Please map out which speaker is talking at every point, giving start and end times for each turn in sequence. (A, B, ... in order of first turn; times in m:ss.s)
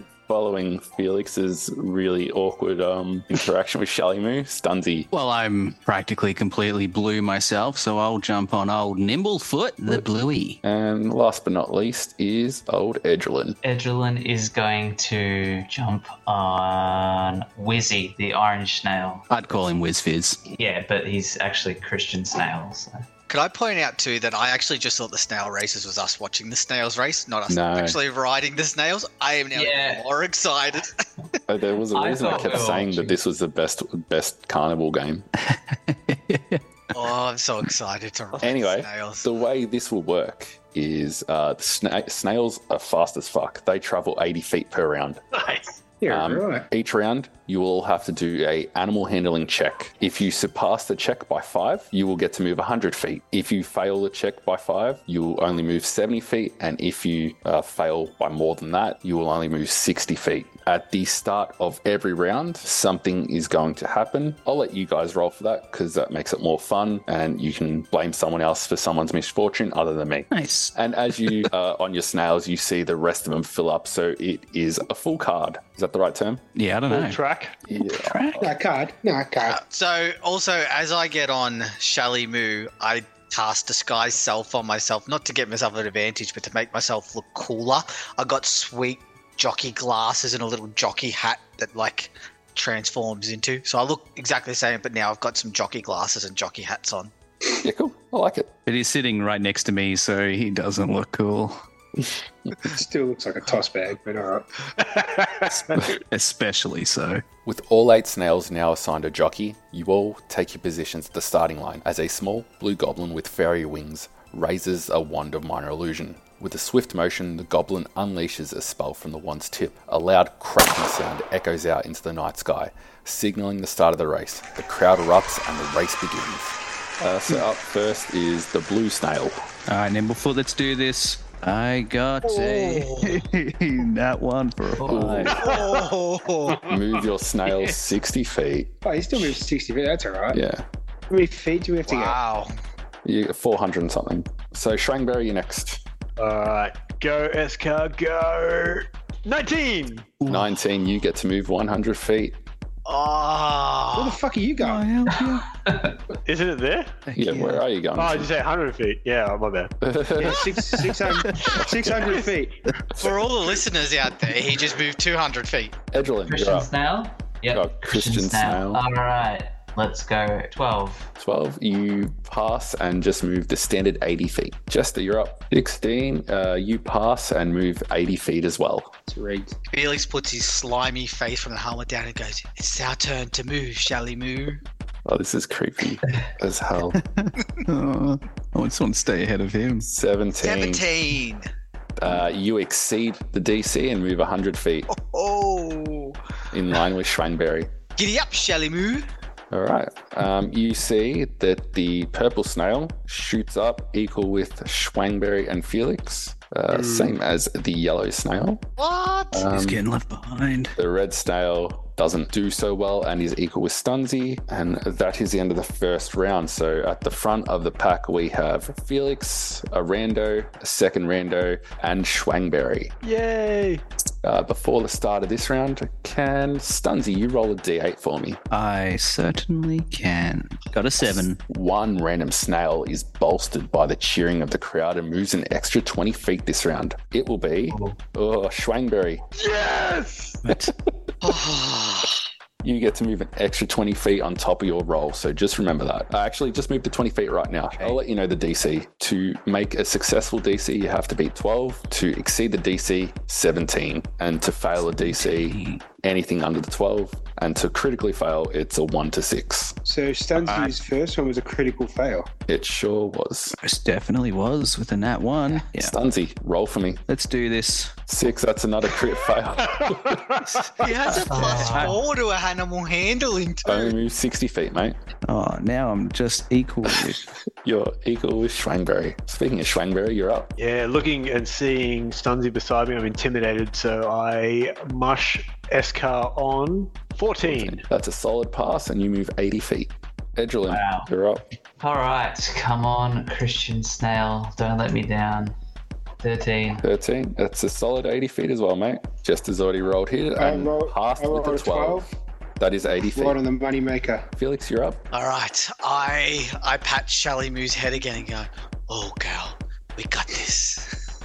0:00.3-0:05.1 A
0:05.1-0:10.6 B
0:10.6-0:13.6 A
0:13.6-0:19.3 C
0:19.3-0:20.4 B
0:20.5-0:23.0 C
0:23.3-0:31.0 D
0:27.5-0:28.0 A
0:29.5-0:30.0 C
0:31.5-0:35.3 A
0:31.9-0:33.1 C
0:35.4-0:37.0 B
0:36.9-0:39.2 D
0:38.4-0:45.2 A
0:45.4-0:45.7 E
0:46.0-0:46.7 F
0:46.1-1:16.4 A
1:10.3-1:11.5 B
1:16.6-1:17.2 B
1:16.9-1:17.6 E
1:17.7-1:18.5 A
1:17.8-1:18.5 B
1:18.4-1:19.6 F
1:19.4-1:37.1 D
1:37.6-1:38.5 A
1:38.7-1:41.6 B
1:42.7-1:45.8 F
1:45.5-1:47.2 B
1:47.4-2:09.4 A
2:09.7-2:15.5 B
2:12.2-2:13.2 D
2:14.8-2:15.4 C
2:14.9-2:15.4 A
2:15.4-2:16.6 D
2:15.4-2:15.8 E
2:16.7-2:18.7 A
2:18.8-2:20.4 F
2:20.3-2:20.6 A
2:21.1-2:22.2 F
2:21.9-2:22.5 D
2:23.0-2:25.8 A
2:26.2-2:30.3 E
2:30.3-2:32.4 A
2:32.9-2:34.2 D
2:34.0-2:34.9 F
2:34.6-2:35.5 B
2:35.2-2:36.0 C
2:36.3-2:37.0 E
2:37.1-2:37.6 B
2:37.1-2:38.3 A
2:38.0-2:39.7 E
2:39.8-2:40.7 A
2:40.2-2:42.6 F
2:41.0-2:41.6 B
2:41.5-2:42.0 A
2:43.0-2:45.8 D
2:45.9-2:46.7 A
2:46.3-2:51.1 C
2:47.5-2:48.8 A
2:51.2-2:58.9 A
2:59.1-2:59.6 F
2:59.7-3:04.6 D
3:05.1-3:07.0 A
3:07.0-3:09.9 B
3:09.8-3:10.9 A
3:10.4-3:11.5 D
3:12.0-3:14.9 A
3:14.9-3:16.2 D
3:16.5-3:17.7 A
3:18.0-3:19.1 D
3:19.5-3:28.6 A
3:26.7-3:27.2 E
3:28.8-3:29.4 D
3:29.3-3:29.8 A
3:29.5-3:30.8 B
3:30.8-3:42.9 A
3:43.0-3:43.8 E
3:44.2-3:48.4 A
3:48.5-3:51.4 B
3:51.0-3:59.2 A
3:57.7-3:58.0 C
3:59.4-4:00.4 E
4:00.4-4:00.7 B
4:01.2-4:02.2 D
4:02.6-4:19.8 A
4:14.8-4:15.8 B
4:19.8-4:22.3 F
4:20.4-4:20.7 B
4:22.5-4:23.6 A
4:23.6-4:26.0 B
4:25.8-4:27.0 A
4:27.1-4:28.0 B
4:28.1-4:30.6 A
4:29.7-4:30.6 E
4:30.5-4:31.9 B
4:30.8-4:33.9 D
4:31.3-4:32.0 C
4:33.7-4:35.0 A
4:35.3-4:37.3 B
4:37.6-4:40.5 A
4:40.6-4:47.8 E
4:47.4-4:51.4 A
4:50.7-4:51.1 C
4:51.8-4:55.6 C
4:56.2-4:56.8 C
4:56.8-5:02.1 A
5:00.4-5:02.1 F
5:02.6-5:03.4 A
5:03.1-5:04.3 F
5:04.4-5:05.0 A
5:05.1-5:11.0 D